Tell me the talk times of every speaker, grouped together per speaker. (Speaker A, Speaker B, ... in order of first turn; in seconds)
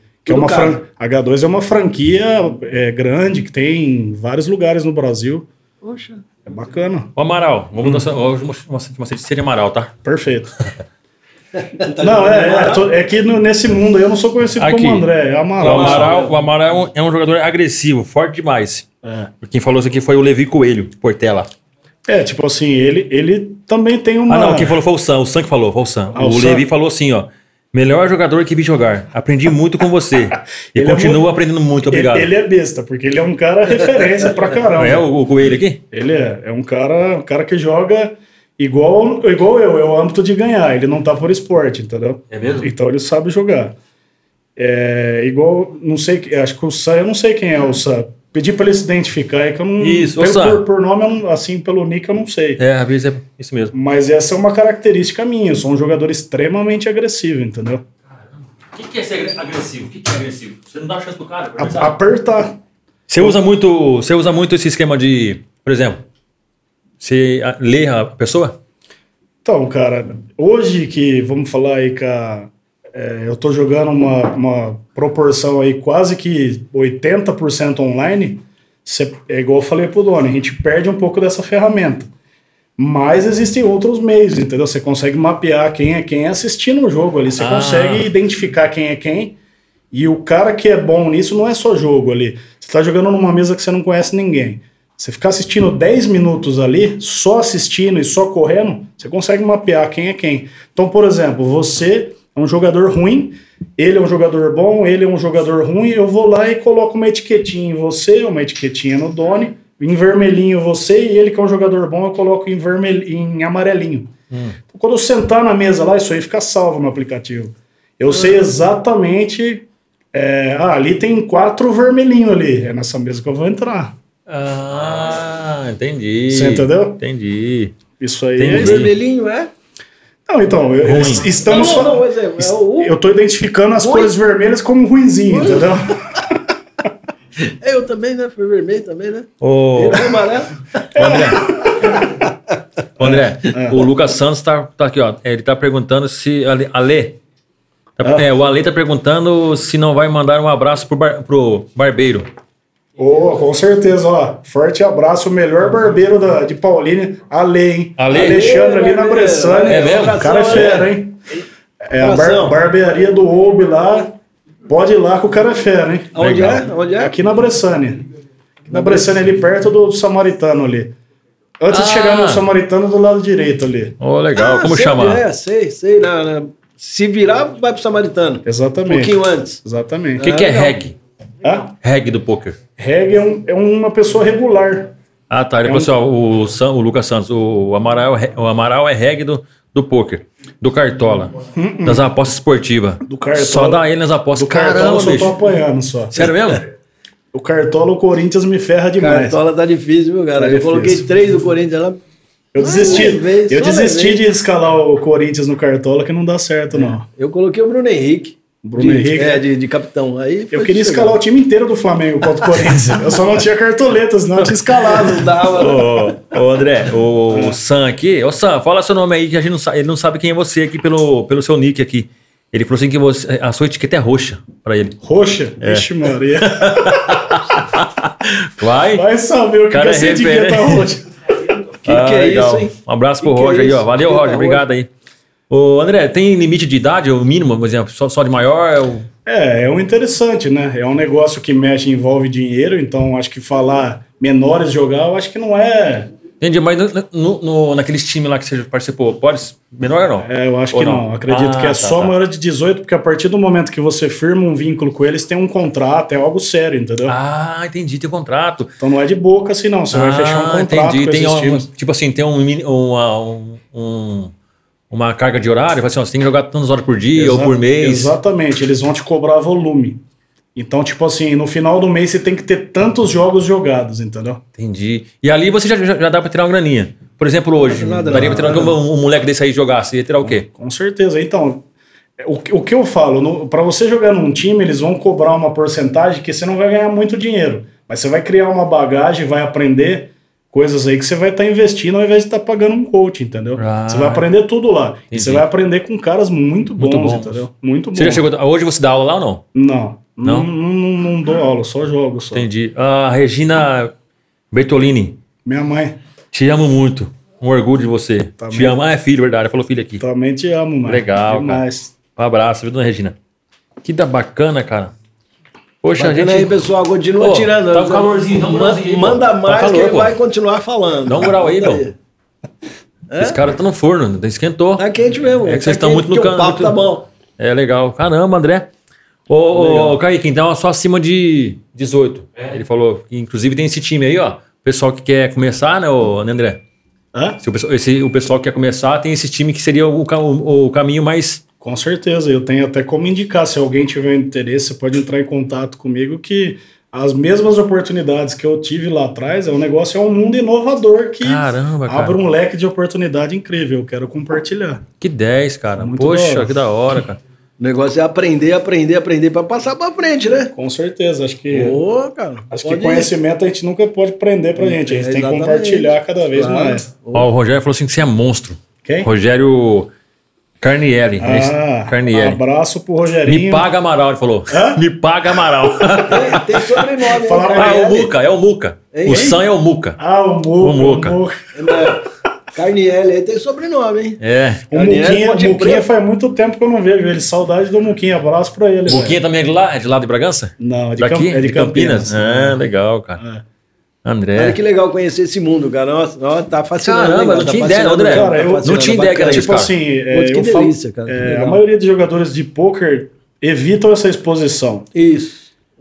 Speaker A: 0.2-5.5, 6.5-7.1, 10.0-10.5, 12.0-16.2, 19.0-19.3, 22.1-24.8, 26.1-26.7, 30.7-31.3, 31.9-35.1, 35.9-43.8, 44.6-52.6, 53.7-57.9, 61.6-62.6, 69.4-82.1, 82.8-89.4, 89.9-114.1, 114.7-124.0, 126.3-127.0, 128.0-128.9, 130.3-136.4, 140.9-141.9, 143.0-143.9, 153.0-161.2, 161.9-164.2, 164.7-166.3, 167.0-168.0, 168.7-170.9, 171.6-174.0, 178.4-180.4, 181.4-181.7, 182.8-184.9, 185.7-185.9, 191.6-192.1, 193.1-196.3, 197.3-199.4, 200.4-201.1, 202.5-207.1, 208.6-209.5, 210.5-215.4, 217.3-217.6, 225.0-227.2, 228.9-231.0, 239.3-246.1, 250.2-257.2, 258.8-261.7, 267.2-270.0, 270.6-274.4, 278.1-278.6, 280.2-281.7, 282.2-298.2, 299.5-302.5, 305.4-306.0, 308.4-308.8, 310.0-311.9, 337.1-337.4, 341.6-354.9, 355.8-356.6, 360.5-361.8, 362.5-366.9, 368.8-369.1, 371.2-373.7, 374.5-374.8, 377.1-378.1, 379.1-379.4, 380.0-381.5, 384.7-389.2, 390.6-392.6, 393.2-393.4, 398.1-404.9
Speaker B: 0.3-0.8, 5.8-6.2, 11.6-12.9, 15.6-16.3, 128.5-129.5, 131.3-133.0, 133.8-134.1, 135.3-135.8, 137.4-140.9, 158.1-160.9, 162.0-162.6, 166.2-167.2, 168.7-169.2, 174.4-179.6, 180.2-180.8, 199.0-202.0, 202.6-204.2, 206.7-211.2, 214.8-216.1, 231.8-234.7, 277.6-278.8, 316.0-321.9, 323.1-323.4, 324.8-327.1, 329.5-330.0, 357.6-360.5, 361.5-363.1, 364.6-367.3, 376.0-378.1, 378.9-379.4, 381.5-384.2, 384.7-385.9, 394.4-401.6, 404.9-405.5
Speaker C: 7.2-9.9, 14.6-15.1, 15.6-18.9, 19.4-21.5, 24.3-32.3, 34.7-35.8, 42.3-42.7, 49.8-50.6, 52.6-53.7, 58.7-61.9, 63.1-66.0, 67.0-68.6, 87.4-88.1, 114.3-114.6, 124.3-127.8, 128.4-129.0, 130.8-131.3, 139.4-140.3, 140.9-142.0, 143.0-147.2, 148.0-152.3, 158.0-158.5, 159.7-160.8, 166.2-166.7, 171.7-172.5, 174.0-175.2, 180.2-181.0, 181.8-182.6, 185.3-195.4, 196.1-196.7, 212.6-213.2, 215.5-225.0, 225.6-229.1, 229.7-230.9, 231.8-234.9, 235.5-239.1, 246.4-252.1, 257.1-258.7, 259.9-264.3, 264.9-268.1, 274.6-280.4, 293.6-294.3, 295.1-295.4, 296.8-297.4, 297.9-299.4, 302.3-303.9, 304.5-305.2, 306.3-310.0, 310.9-311.6, 312.2-313.1, 313.8-314.9, 315.8-316.7, 317.2-320.2, 321.1-321.8, 323.2-324.8, 325.4-326.8, 327.4-328.7, 329.3-336.6, 337.4-341.4, 351.2-352.2, 355.0-357.2, 367.1-369.9, 370.6-372.4, 373.3-376.7, 377.4-380.0, 380.6-381.2, 384.2-384.6, 388.9-393.2, 394.1-394.6, 396.8-399.7